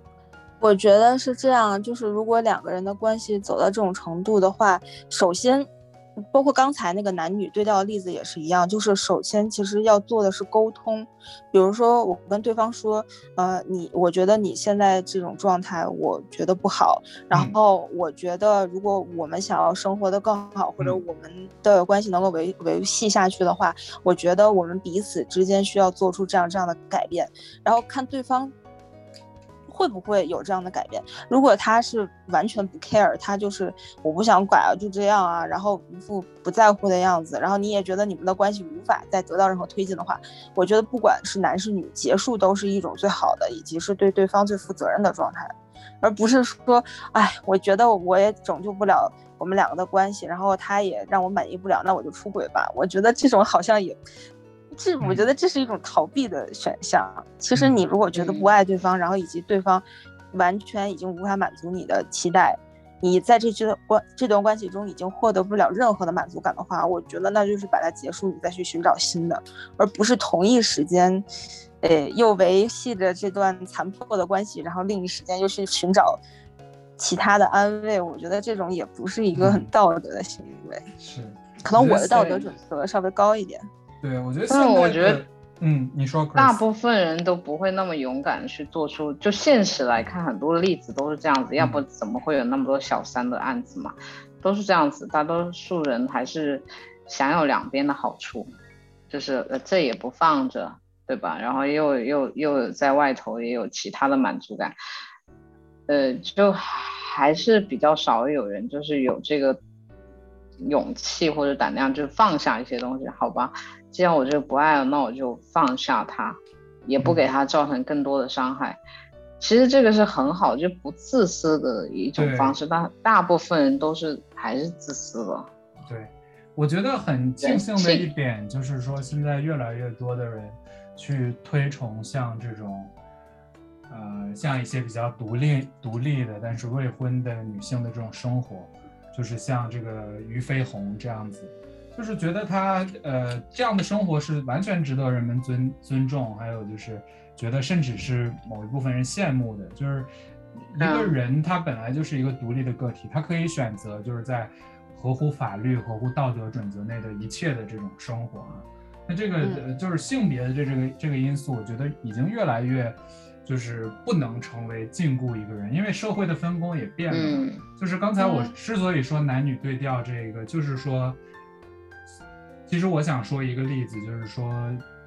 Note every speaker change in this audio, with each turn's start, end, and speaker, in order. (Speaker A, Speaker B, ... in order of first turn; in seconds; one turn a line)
Speaker A: 0.6-5.7
Speaker A: 6.3-28.5
Speaker A: 29.7-54.0
Speaker A: 54.7-71.2
Speaker B: 55.0-55.2
Speaker B: 57.5-57.8
Speaker C: 58.1-58.5
Speaker A: 71.8-76.2
Speaker A: 77.0-80.8
Speaker B: 79.4-79.7
Speaker B: 81.0-82.5
Speaker A: 81.6-83.6
Speaker B: 84.0-86.6
Speaker C: 84.5-85.2
Speaker C: 86.3-98.5
Speaker B: 91.6-91.8
Speaker C: 99.1-104.7
Speaker C: 105.9-109.6
Speaker C: 110.6-118.8
Speaker C: 119.4-125.5
Speaker B: 122.2-122.5
Speaker B: 125.9-132.9
Speaker C: 127.4-128.1
Speaker B: 133.9-150.1
Speaker B: 150.6-171.2
Speaker C: 150.8-151.1
Speaker C: 167.1-167.6
Speaker A: 168.2-168.5
Speaker B: 172.7-174.8